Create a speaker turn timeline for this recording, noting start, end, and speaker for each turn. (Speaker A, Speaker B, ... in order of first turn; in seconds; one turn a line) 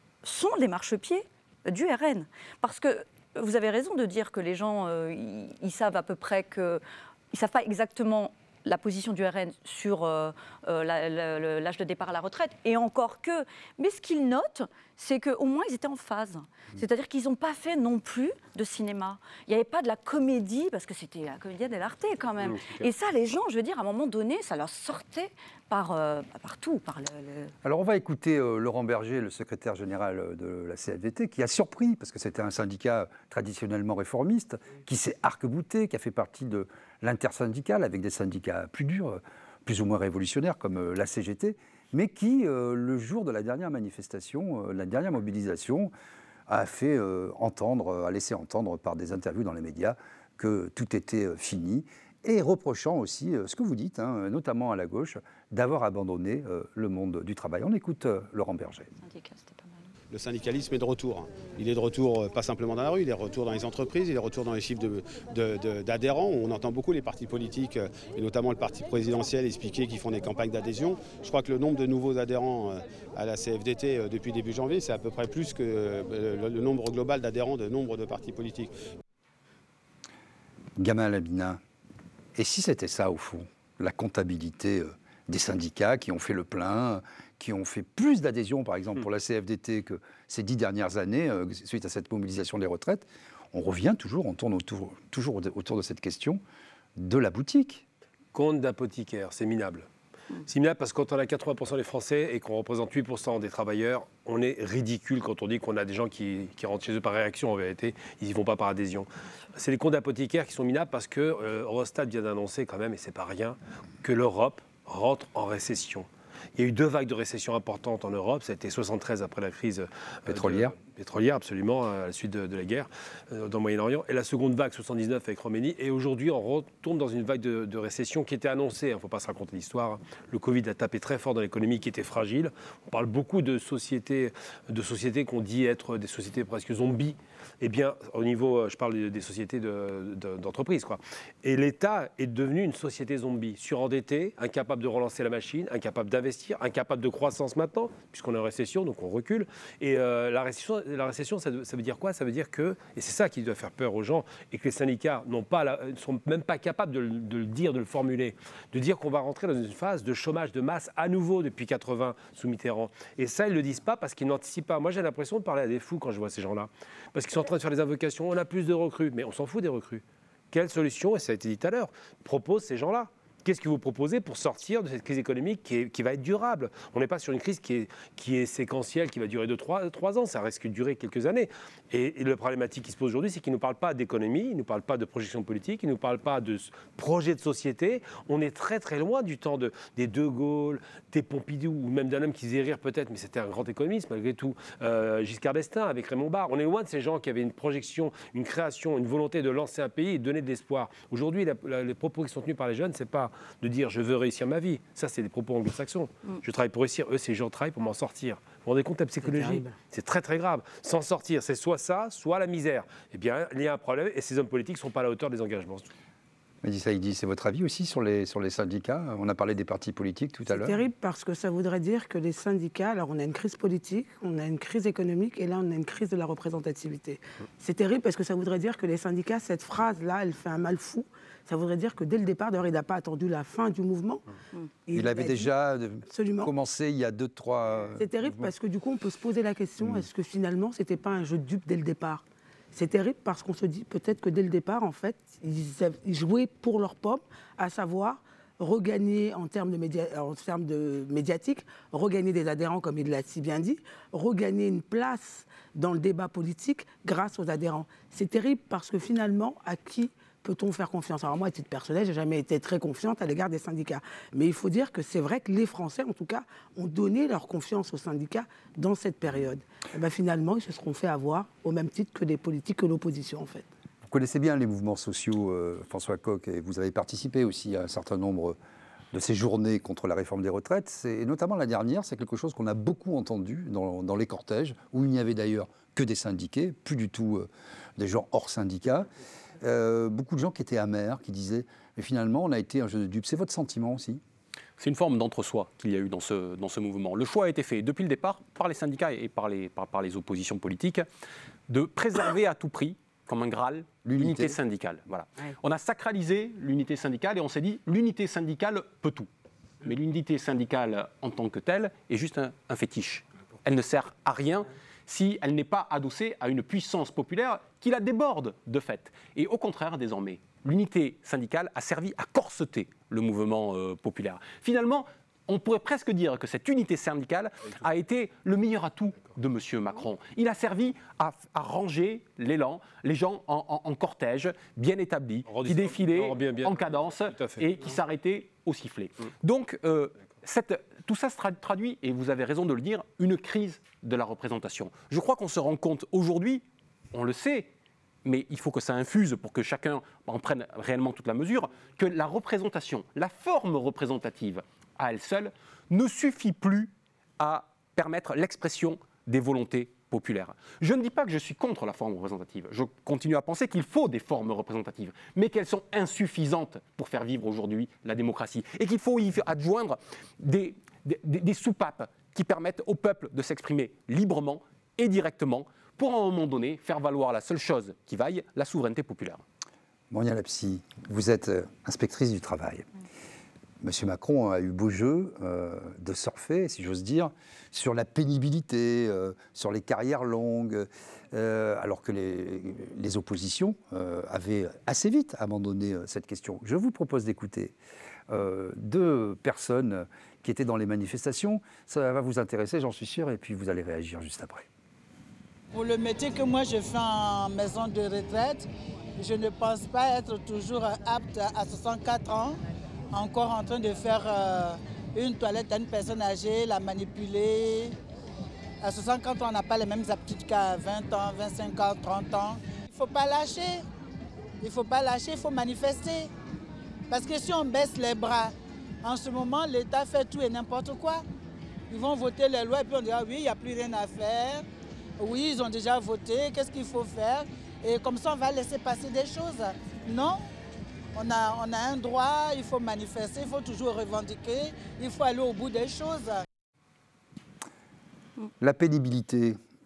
Speaker A: 0.2-27.5
Speaker B: 22.4-22.9
Speaker C: 27.6-45.9
Speaker C: 46.5-58.9
Speaker A: 59.0-59.9
Speaker D: 60.1-78.7
Speaker C: 80.8-81.6
Speaker C: 82.4-96.4
Speaker C: 97.0-97.8
Speaker B: 98.3-99.9
Speaker B: 100.5-215.9
Speaker C: 120.3-120.7
Speaker E: 209.2-209.8
Speaker C: 216.6-220.8
Speaker E: 220.5-234.2
Speaker E: 234.9-235.5
Speaker C: 234.9-238.5
Speaker E: 236.1-236.5
Speaker E: 238.0-273.7
Speaker C: 239.8-240.1
Speaker C: 274.0-278.6
Speaker C: 279.1-289.1
Speaker C: 289.6-294.2
Speaker F: 294.8-301.1
Speaker F: 301.7-309.3
Speaker C: 304.1-304.6
Speaker F: 309.8-347.7
Speaker B: 335.5-337.6
Speaker F: 348.2-379.4
Speaker C: 380.1-382.9
Speaker C: 383.8-397.8
Speaker C: 398.3-404.7
Speaker G: 405.7-408.7
Speaker G: 409.2-412.6
Speaker G: 413.1-417.9
Speaker G: 418.8-423.8
Speaker G: 424.6-426.3
Speaker G: 427.1-428.5
Speaker G: 429.0-431.2
Speaker G: 431.9-434.6
Speaker G: 435.2-440.4
Speaker G: 441.1-446.4
Speaker C: 448.6-449.6